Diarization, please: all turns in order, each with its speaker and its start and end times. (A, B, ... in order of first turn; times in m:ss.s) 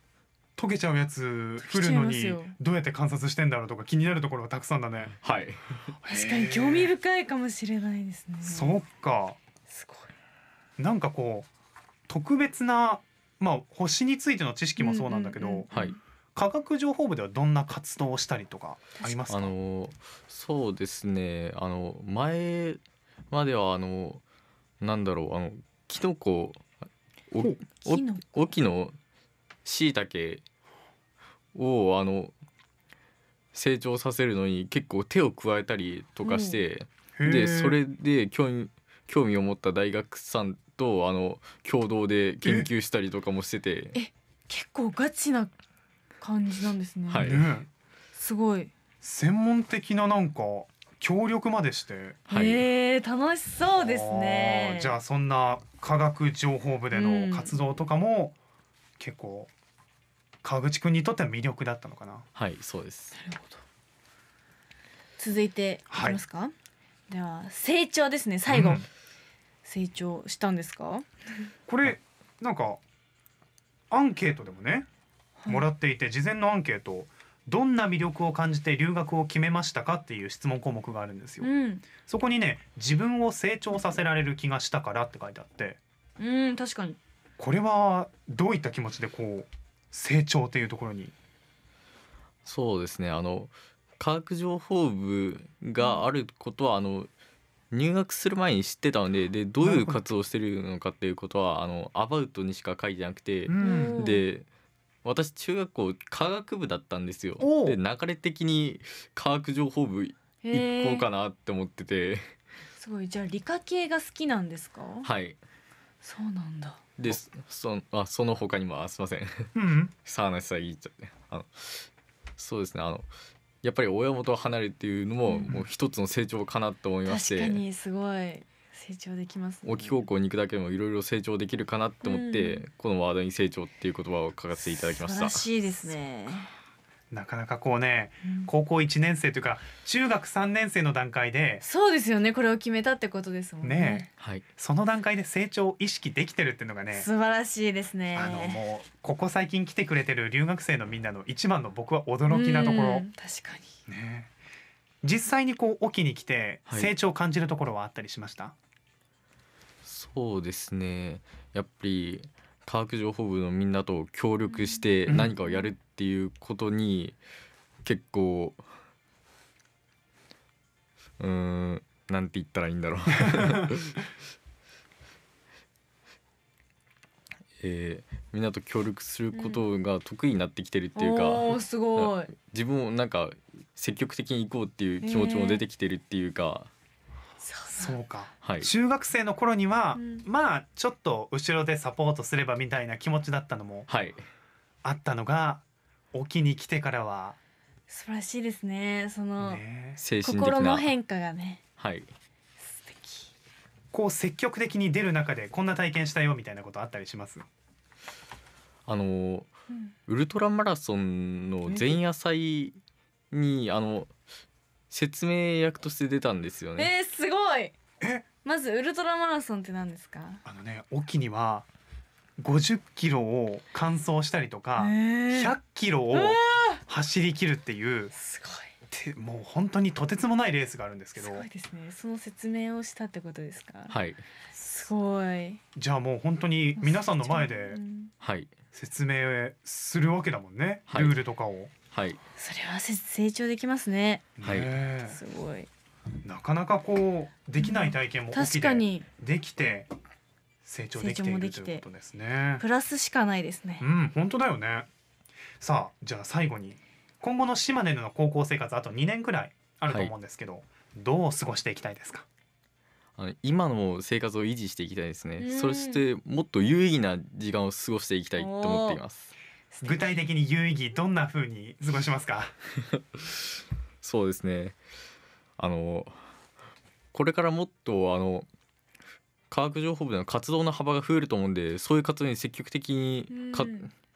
0:00.6-0:05.1 A
0:01.6-0:02.5 B
0:05.2-0:05.8 C
0:06.0-0:06.9 A
0:06.0-0:08.8 B
0:08.4-0:09.4 A
0:09.7-0:10.1 B
0:10.8-0:11.5 A
0:12.1-0:15.7 A
0:14.8-0:16.0 B
0:15.7-0:16.0 C
0:16.3-0:19.5 A
0:19.3-0:22.8 C
0:23.3-0:24.2 C
0:24.8-0:26.6 C
0:27.3-0:29.0 C
0:27.8-0:28.2 B
0:29.6-0:30.4 C
0:31.5-0:32.3 C
0:33.5-0:43.9 C
0:36.2-0:36.6 B
0:37.2-0:37.8 A
0:42.4-0:42.7 A
0:43.9-0:45.5 B
0:46.2-0:47.4 B
0:47.1-0:47.5 C
0:47.2-0:47.7 A
0:48.1-0:48.7 B
0:49.0-0:52.2 A
0:52.3-0:52.6 C
0:52.3-0:55.0 B
0:53.7-0:58.4 A
0:56.9-0:57.6 B
0:59.0-0:59.5 A
1:00.4-1:02.3 A
1:02.4-1:03.1 C
1:03.1-1:03.6 B
1:05.2-1:06.5 B
1:05.9-1:06.2 A
1:07.1-1:08.8 B
1:08.5-1:08.8 A
1:09.6-1:11.0 B
1:11.7-1:12.8 A
1:13.9-1:14.9 A
1:15.4-1:15.7 B
1:15.5-1:21.5 A
1:21.4-1:21.8 B
1:22.0-1:25.8 A
1:26.2-1:27.0 B
1:27.4-1:31.1 A
1:32.4-1:37.1 C
1:37.7-1:44.4 C
1:39.6-1:40.0 A
1:43.5-1:44.0 A
1:43.6-1:44.2 B
1:45.0-1:52.2 C
1:47.4-1:47.8 A
1:50.4-1:51.1 B
1:52.8-1:55.1 B
1:55.0-1:55.4 C
1:56.0-1:56.8 B
1:57.0-1:59.5 C
1:59.5-1:59.9 A
2:00.0-2:01.9 C
2:02.4-2:03.1 C
2:03.6-2:07.6 C
2:07.0-2:10.0 B
2:09.6-2:15.4 C
2:12.0-2:12.6 B
2:14.8-2:16.5 B
2:17.1-2:21.6 A
2:18.2-2:18.5 B
2:21.6-2:24.1 B
2:23.6-2:27.1 A
2:26.9-2:28.6 B
2:28.1-2:33.0 A
2:32.3-2:33.7 B
2:33.9-2:34.3 A
2:35.0-2:38.5 A
2:36.7-2:36.9 C
2:39.8-2:47.2 C
2:44.5-2:44.8 B
2:45.1-2:45.3 A
2:47.8-2:48.6 C
2:51.2-2:54.0 C
2:57.6-3:06.7 C
2:59.3-2:59.6 B
3:01.0-3:02.3 B
3:05.0-3:05.6 B
3:07.4-3:07.9 B
3:07.8-3:13.9 A
3:08.4-3:08.7 C
3:09.9-3:10.2 B
3:13.9-3:14.2 C
3:14.8-3:17.4 A
3:17.9-3:19.6 B
3:19.4-3:20.0 A
3:20.0-3:20.9 C
3:20.2-3:21.6 B
3:21.8-3:22.1 C
3:22.6-3:23.3 B
3:23.9-3:27.4 A
3:28.9-3:29.5 C
3:30.1-3:32.8 C
3:33.3-3:34.1 C
3:34.9-3:36.9 C
3:36.8-3:37.7 B
3:38.0-3:38.2 A
3:38.4-3:40.4 B
3:40.4-3:41.7 A
3:42.4-3:48.1 A
3:44.8-3:45.5 B
3:46.1-3:46.8 B
3:48.1-3:48.7 B
3:48.9-3:51.4 A
3:51.2-3:54.0 B
3:53.9-3:54.2 C
3:54.5-3:55.6 B
3:55.8-3:57.8 A
3:56.8-3:58.1 B
3:58.2-3:58.5 C
3:58.7-4:01.7 A
4:00.9-4:01.2 C
4:01.9-4:02.2 C
4:02.4-4:04.3 B
4:04.4-4:05.2 A
4:04.4-4:04.7 C
4:05.0-4:05.7 B
4:06.2-4:09.9 A
4:07.6-4:09.0 B
4:10.6-4:12.6 A
4:10.9-4:11.8 B
4:12.6-4:13.8 B
4:13.8-4:14.9 A
4:15.6-4:22.2 A
4:19.9-4:20.1 C
4:23.2-4:29.3 C
4:25.4-4:26.0 B
4:28.4-4:29.0 B
4:29.7-4:30.3 B
4:29.8-4:32.5 A
4:34.0-4:34.8 C
4:35.6-4:36.2 C
4:37.1-4:38.5 C
4:39.5-4:43.9 C
4:43.3-4:43.9 B